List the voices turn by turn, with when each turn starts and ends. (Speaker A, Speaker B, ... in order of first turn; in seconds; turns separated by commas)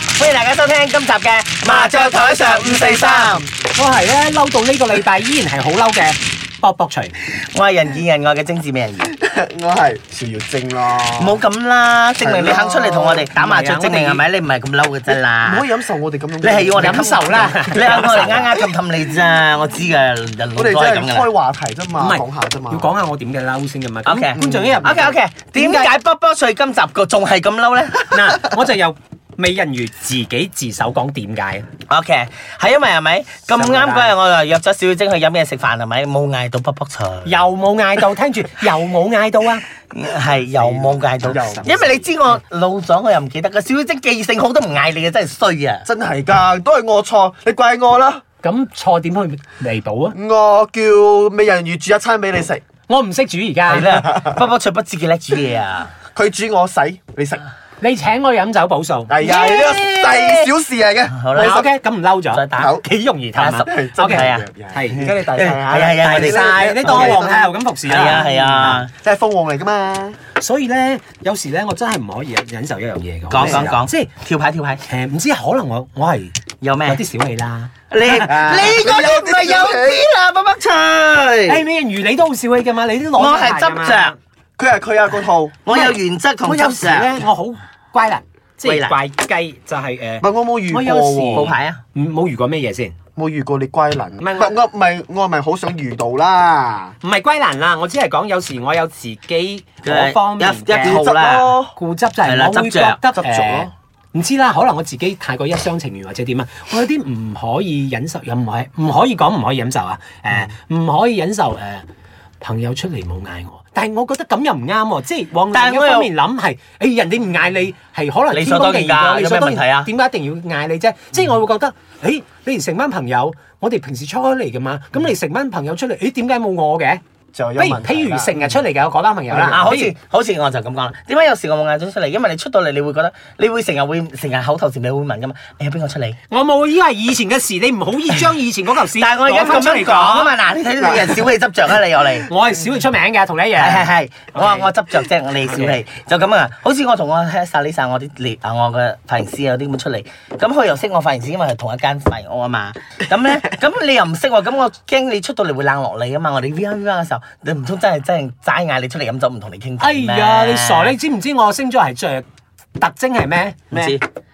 Speaker A: 0.2-3.5, Speaker B: 1.7-3.5, Speaker C: 3.7-7.1, Speaker A: 7.5-9.1, Speaker B: 9.1-11.4, Speaker A: 11.2-15.7, Speaker B: 12.2-13.3, Speaker C: 13.3-14.2, Speaker B: 15.3-17.6, Speaker A: 16.4-21.3, Speaker C: 16.8-18.6, Speaker B: 20.6-22.9, Speaker C: 22.0-25.9, Speaker A: 24.1-28.5, Speaker B: 24.4-25.1, Speaker C: 28.1-31.7, Speaker A: 31.9-37.4, Speaker C: 33.5-34.1, Speaker C: 37.2-39.6, Speaker A: 39.9-45.9, Speaker B: 40.5-42.0, Speaker B: 45.8-48.2, Speaker C: 48.4-50.2, Speaker B: 50.1-52.6, Speaker C: 52.9-54.0, Speaker A: 53.7-55.9, Speaker B: 54.1-54.4, Speaker B: 56.1-57.5, Speaker C: 57.8-59.6, Speaker B: 59.1-61.7, Speaker A: 59.2-60.5, Speaker A: 61.1-61.6, Speaker C: 61.4-68.8, Speaker A: 62.3-64.5, Speaker B: 62.6-62.9, Speaker B: 63.6-70.2, Speaker A: 65.0-67.3, Speaker A: 67.9-68.9, Speaker C: 70.4-74.1, Speaker A: 73.3-74.8, Speaker C: 74.9-78.3, Speaker A: 76.6-77.0, Speaker A: 77.9-81.6, Speaker B: 78.1-80.0, Speaker C: 81.5-84.2, Speaker A: 83.2-84.2, Speaker B: 84.6-85.7, Speaker A: 85.7-87.2, Speaker C: 85.7-93.0, Speaker A: 88.6-89.0, Speaker B: 90.2-91.5, Speaker A: 91.3-91.8, Speaker B: 93.2-97.0, Speaker C: 94.2-94.6, Speaker C: 97.0-101.0, Speaker A: 99.8-101.6, Speaker B: 100.8-101.7, Speaker C: 101.8-111.9, Speaker A: 102.2-103.0, Speaker B: 103.1-103.7, Speaker C: 112.4-127.0, Speaker A: 115.5-116.1, Speaker A: 118.3-119.9, Speaker B: 127.3-128.6, Speaker C: 127.6-129.9, Speaker B: 129.3-129.7, Speaker A: 129.5-136.2, Speaker C: 136.3-140.3, Speaker A: 138.9-142.3, Speaker C: 142.3-144.7, Speaker A: 143.6-161.0, Speaker C: 145.4-145.8, Speaker C: 159.8-162.3, Speaker C: 162.8-163.6, Speaker B: 163.7-164.0, Speaker A: 163.7-164.0